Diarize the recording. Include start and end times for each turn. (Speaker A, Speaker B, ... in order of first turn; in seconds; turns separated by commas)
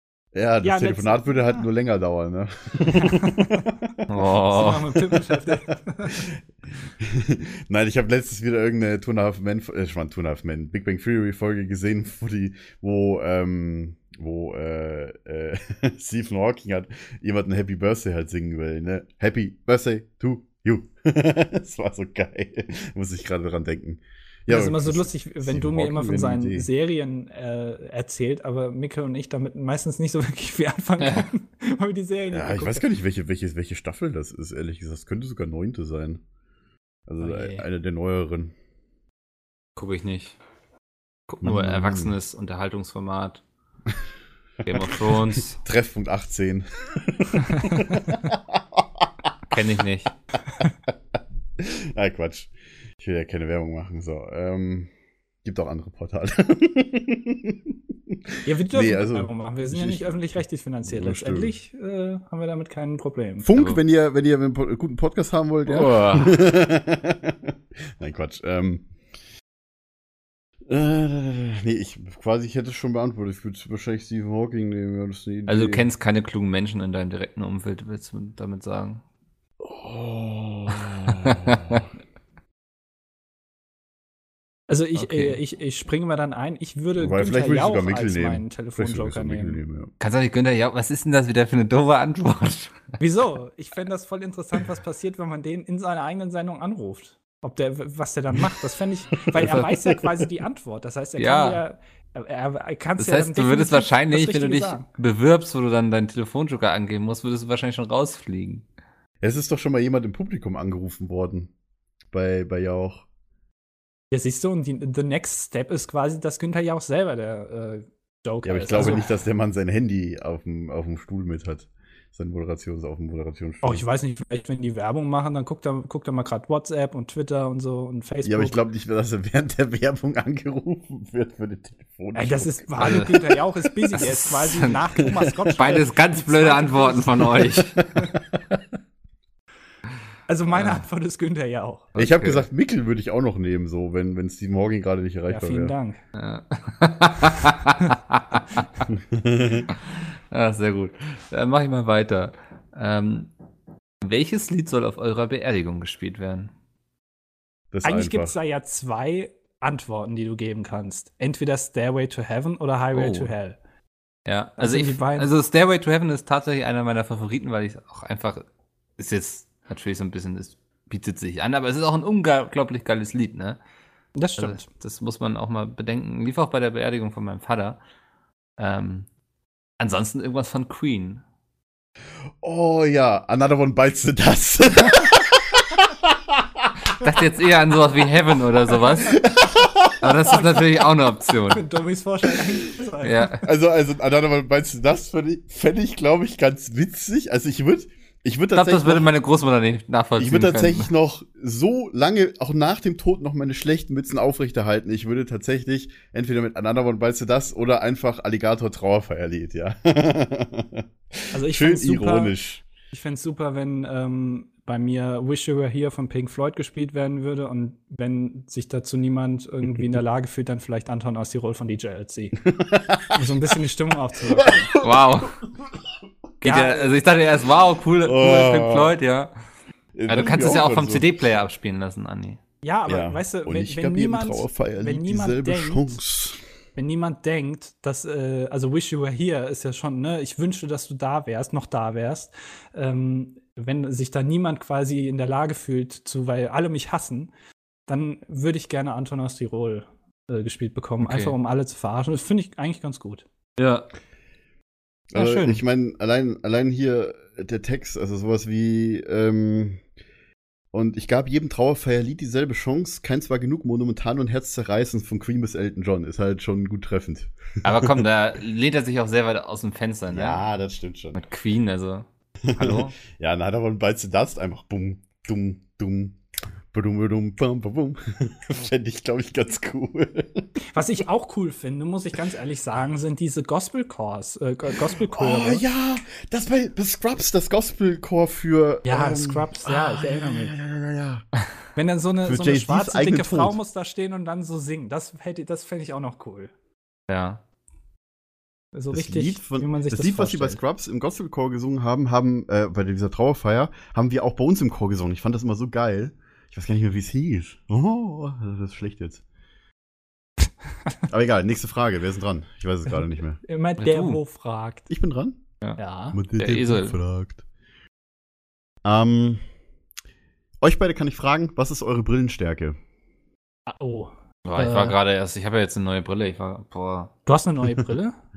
Speaker A: 0.3-4.1, Speaker B: 0.6-1.5, Speaker B: 3.0-3.5, Speaker C: 4.1-4.9, Speaker B: 4.5-6.2, Speaker A: 6.2-26.7, Speaker B: 24.5-32.9, Speaker A: 32.3-36.2, Speaker A: 37.1-38.5, Speaker B: 37.2-37.6, Speaker C: 39.8-40.4, Speaker C: 41.3-43.4, Speaker A: 41.4-42.1, Speaker A: 44.6-49.6, Speaker C: 44.6-45.6, Speaker C: 49.5-50.1, Speaker A: 51.6-54.9, Speaker A: 55.4-60.1, Speaker B: 58.5-63.5, Speaker A: 60.9-61.5, Speaker A: 63.4-68.9, Speaker C: 65.7-66.3, Speaker A: 70.7-75.9, Speaker C: 75.5-79.0, Speaker A: 79.6-81.8, Speaker C: 80.7-81.8, Speaker B: 84.7-89.6, Speaker C: 85.0-85.4, Speaker A: 87.0-89.9, Speaker C: 90.0-92.8, Speaker B: 93.0-104.9, Speaker A: 99.3-100.2, Speaker C: 101.2-101.6, Speaker C: 103.0-108.7, Speaker A: 109.2-111.5, Speaker A: 112.1-113.1, Speaker B: 114.1-119.1, Speaker A: 118.4-123.8, Speaker B: 123.6-128.6, Speaker A: 128.2-133.3, Speaker B: 132.2-137.4, Speaker C: 132.8-133.2, Speaker C: 134.0-134.8, Speaker C: 135.6-137.9, Speaker B: 140.3-141.9, Speaker C: 140.5-140.8, Speaker C: 141.9-142.5, Speaker A: 142.0-145.7, Speaker B: 145.3-146.0, Speaker C: 146.2-148.7, Speaker A: 148.9-149.7, Speaker C: 149.8-153.3, Speaker C: 154.0-156.5, Speaker A: 157.7-158.4, Speaker B: 157.8-163.6, Speaker C: 162.9-163.3, Speaker C: 164.3-168.4, Speaker B: 164.6-165.3, Speaker C: 169.0-173.6, Speaker B: 174.2-174.7, Speaker C: 174.4-177.8, Speaker C: 178.6-179.1, Speaker C: 179.8-181.2, Speaker A: 182.4-186.7, Speaker C: 187.0-189.2, Speaker A: 189.0-190.7, Speaker C: 190.0-191.6, Speaker B: 191.5-193.3, Speaker C: 193.0-193.4, Speaker A: 193.4-199.1, Speaker C: 198.5-200.9, Speaker A: 200.2-212.6, Speaker B: 211.3-212.3, Speaker B: 212.9-222.4, Speaker A: 222.4-223.2, Speaker B: 223.1-224.7, Speaker A: 224.4-225.3, Speaker C: 224.8-225.4, Speaker C: 226.4-229.3, Speaker B: 226.4-226.9, Speaker A: 228.0-228.9, Speaker A: 229.9-231.2, Speaker C: 230.1-232.4, Speaker B: 232.6-236.0, Speaker A: 232.9-236.4, Speaker B: 236.8-247.3, Speaker B: 247.9-253.2, Speaker C: 251.0-251.3, Speaker C: 253.6-253.9, Speaker A: 255.1-259.8, Speaker C: 255.1-255.6, Speaker A: 260.7-268.1, Speaker C: 267.6-270.4, Speaker A: 270.1-271.2, Speaker C: 271.2-273.0, Speaker A: 272.5-276.2, Speaker A: 276.7-280.5, Speaker B: 280.7-285.6, Speaker A: 284.9-291.2, Speaker B: 288.9-290.6, Speaker B: 291.8-296.5, Speaker A: 292.2-293.6, Speaker C: 297.1-297.4, Speaker B: 298.7-300.6, Speaker A: 298.9-309.2, Speaker A: 311.1-313.4, Speaker B: 313.4-314.9, Speaker C: 313.8-314.2, Speaker A: 314.9-315.4, Speaker B: 315.8-316.2, Speaker A: 316.1-317.4, Speaker C: 316.4-317.0, Speaker A: 318.8-319.4, Speaker A: 320.6-322.8, Speaker B: 323.7-325.0, Speaker C: 324.4-327.1, Speaker B: 327.3-328.1